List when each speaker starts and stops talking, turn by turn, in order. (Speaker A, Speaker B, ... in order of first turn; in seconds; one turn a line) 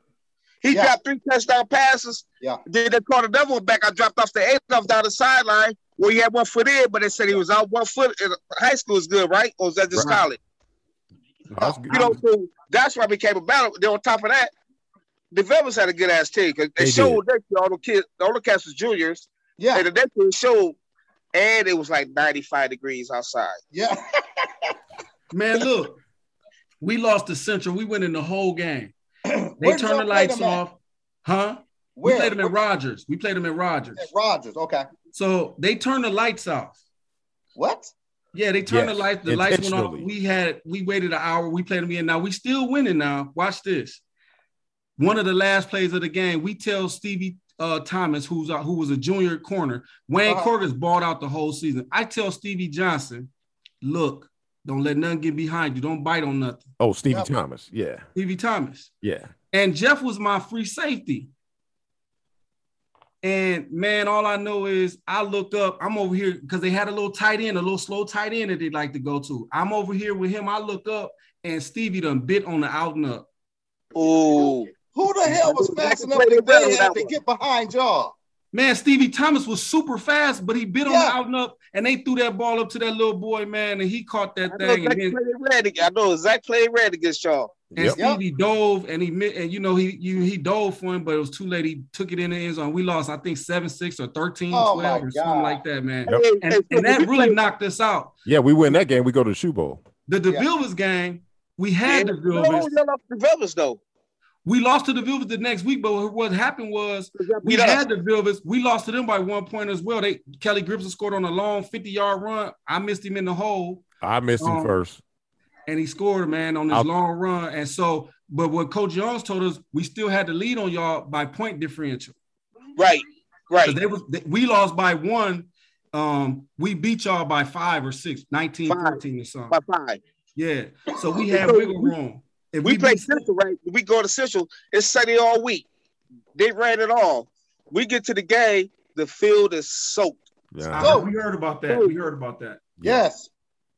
Speaker A: 0.6-10.4
Speaker B: 9.9-10.2
Speaker B: 11.5-12.0
Speaker C: 11.9-12.2
Speaker A: 11.9-14.5
Speaker A: 15.3-20.8
Speaker B: 16.8-17.2
Speaker D: 19.6-19.9
Speaker A: 21.3-23.6
Speaker D: 23.7-24.7
Speaker C: 25.3-26.0
Speaker C: 26.8-28.9
Speaker D: 29.3-30.6
Speaker C: 29.6-34.1
Speaker D: 31.9-32.5
Speaker D: 34.0-34.9
Speaker C: 35.1-36.8
Speaker D: 37.5-37.9
Speaker C: 38.3-44.0
Speaker B: 38.6-40.1
Speaker C: 45.0-53.3
Speaker D: 50.2-50.5
Speaker C: 53.8-56.6
Speaker B: 56.8-58.0
Speaker C: 58.1-58.9
Speaker B: 59.0-59.3
Speaker C: 59.5-61.3
Speaker C: 63.2-73.3
Speaker A: 74.0-74.7
Speaker D: 74.8-78.1
Speaker A: 75.3-77.1
Speaker C: 78.5-85.2
Speaker D: 80.9-81.2
Speaker A: 84.5-87.5
Speaker B: 87.7-88.0
Speaker C: 87.7-98.1
Speaker D: 88.0-88.2
Speaker D: 94.5-95.6
Speaker A: 96.1-97.4
Speaker B: 98.3-99.8
Speaker C: 100.1-102.7
Speaker A: 101.9-103.8
Speaker C: 104.5-113.8
Speaker A: 107.2-107.8
Speaker B: 114.0-115.0
Speaker C: 114.4-114.7
Speaker C: 115.7-122.2
Speaker A: 122.8-123.8
Speaker C: 123.6-129.6
Speaker A: 128.7-130.0
Speaker C: 130.4-133.3
Speaker A: 131.3-131.9
Speaker A: 132.6-135.7
Speaker A: 136.3-140.2
Speaker B: 140.5-141.0
Speaker C: 140.7-142.6
Speaker D: 140.8-141.1
Speaker B: 142.8-143.0
Speaker D: 142.8-143.3